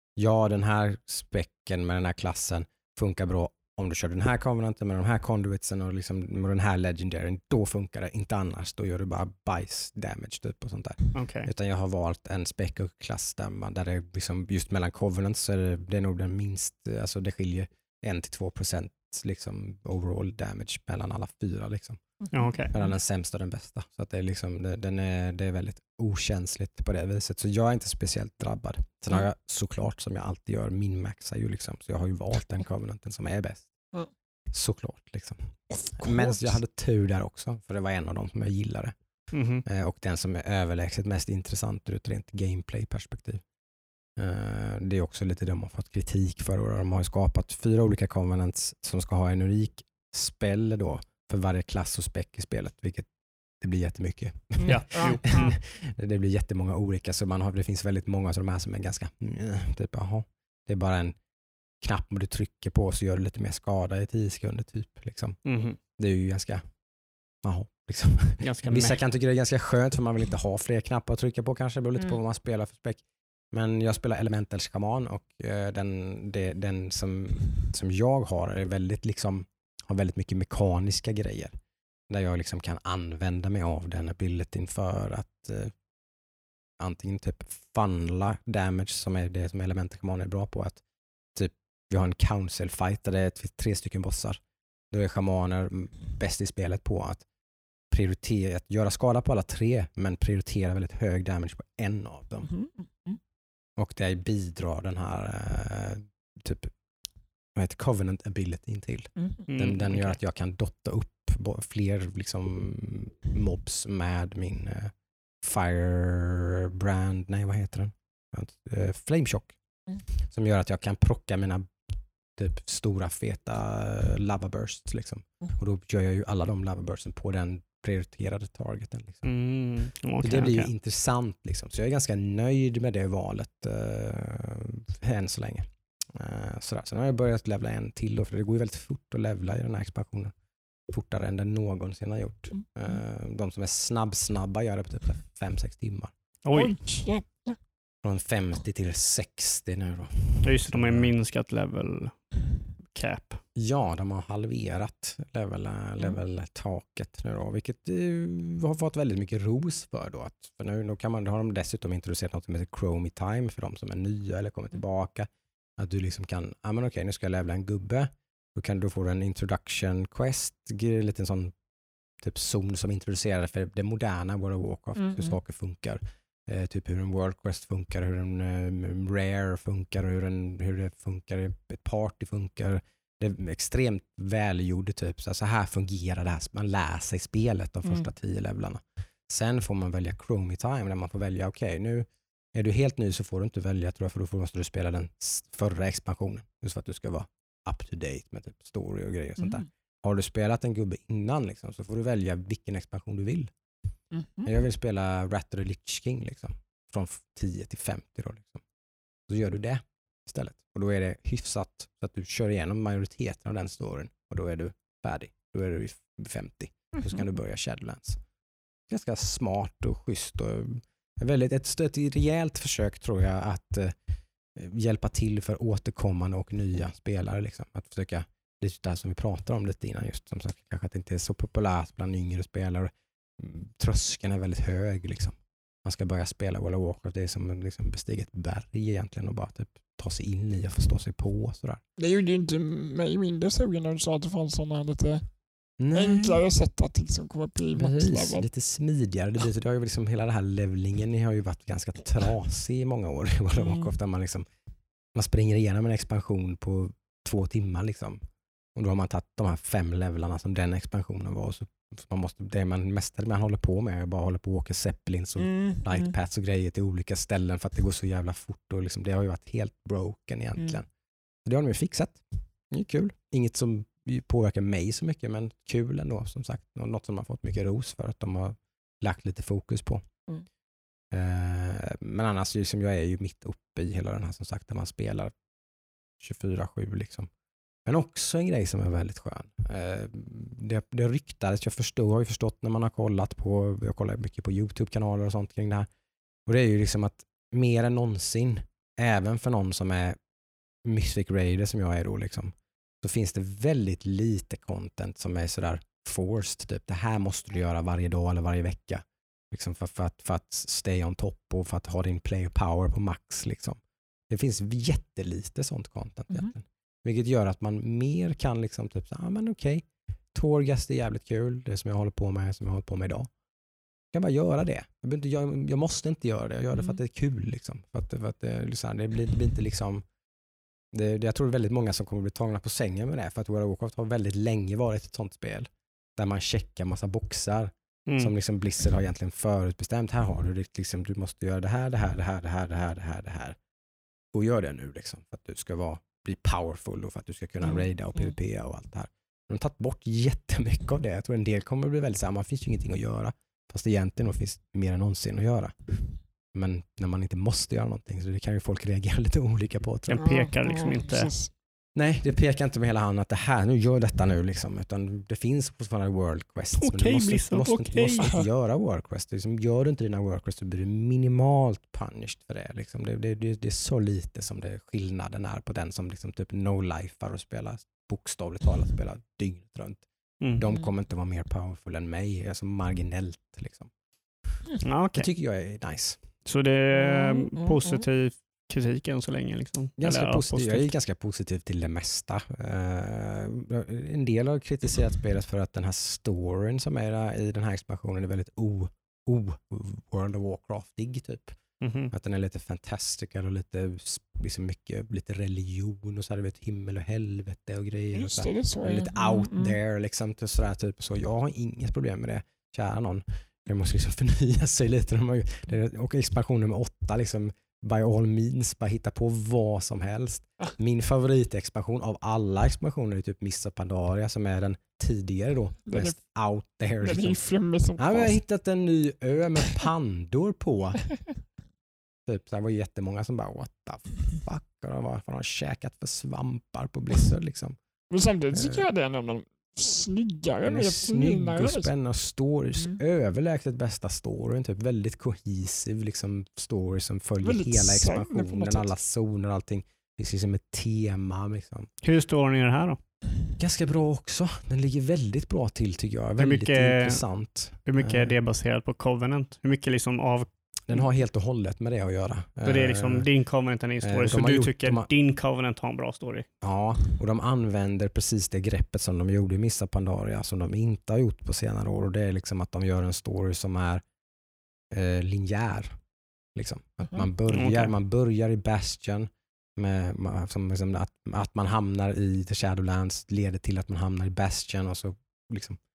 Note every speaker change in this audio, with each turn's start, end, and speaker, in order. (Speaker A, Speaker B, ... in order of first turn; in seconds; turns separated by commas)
Speaker A: 0.1-22.0, Speaker B: 11.1-11.5, Speaker B: 22.3-22.7, Speaker A: 22.7-33.7, Speaker A: 34.5-38.9, Speaker C: 35.8-36.4, Speaker B: 39.3-39.6, Speaker A: 39.6-43.4, Speaker A: 44.2-53.1, Speaker A: 53.6-61.1, Speaker B: 54.6-55.6, Speaker C: 54.9-55.4, Speaker A: 61.8-66.6, Speaker B: 65.5-65.8, Speaker A: 67.4-81.5, Speaker B: 68.4-69.0, Speaker A: 82.1-85.7, Speaker A: 86.8-90.8, Speaker A: 91.3-94.4, Speaker A: 94.9-97.2, Speaker A: 97.9-102.5, Speaker C: 102.4-103.2, Speaker A: 103.8-106.7, Speaker A: 107.5-119.5, Speaker C: 109.2-109.4, Speaker B: 109.5-110.2, Speaker A: 120.2-121.7, Speaker A: 122.3-129.3, Speaker B: 129.2-130.7, Speaker A: 130.2-140.3, Speaker A: 140.9-146.1, Speaker B: 146.4-146.8, Speaker C: 146.5-147.6, Speaker A: 148.0-151.1, Speaker B: 150.4-152.2, Speaker B: 152.9-153.4, Speaker A: 153.6-171.5, Speaker A: 172.2-203.5, Speaker C: 175.0-175.3, Speaker C: 204.1-204.5, Speaker A: 204.4-208.6, Speaker A: 209.3-218.2, Speaker A: 218.9-223.9, Speaker A: 224.5-241.8, Speaker C: 242.0-245.2, Speaker A: 245.8-246.4, Speaker C: 245.9-248.4, Speaker A: 247.7-254.4, Speaker A: 255.1-258.2, Speaker A: 258.7-270.9, Speaker C: 265.4-266.1, Speaker A: 271.4-280.0, Speaker A: 281.1-285.3, Speaker A: 286.2-287.3, Speaker A: 287.8-295.9, Speaker A: 296.4-300.1, Speaker A: 300.8-323.3, Speaker A: 324.1-330.0, Speaker A: 330.9-343.6, Speaker B: 338.1-338.3, Speaker A: 344.3-355.7, Speaker A: 356.5-360.2, Speaker B: 360.1-361.3, Speaker C: 360.2-361.5, Speaker A: 361.9-380.1, Speaker B: 366.8-368.4, Speaker A: 380.6-383.9, Speaker B: 384.8-385.3, Speaker A: 385.1-386.3, Speaker B: 386.4-390.9, Speaker C: 387.0-387.7, Speaker A: 390.0-401.6, Speaker B: 401.8-402.1, Speaker A: 402.1-427.4, Speaker C: 408.1-409.8, Speaker C: 425.9-426.2, Speaker C: 427.0-428.4, Speaker A: 428.0-431.0, Speaker A: 432.2-437.8, Speaker C: 438.1-441.9, Speaker A: 438.5-438.9, Speaker A: 440.6-451.9, Speaker C: 447.4-448.9, Speaker B: 452.0-453.0, Speaker A: 453.6-458.3, Speaker B: 456.4-457.2, Speaker B: 457.8-460.5, Speaker A: 460.9-463.3, Speaker B: 462.6-466.4, Speaker A: 464.0-465.1, Speaker A: 466.6-474.0, Speaker A: 474.9-476.0, Speaker A: 476.5-485.8, Speaker B: 477.5-477.9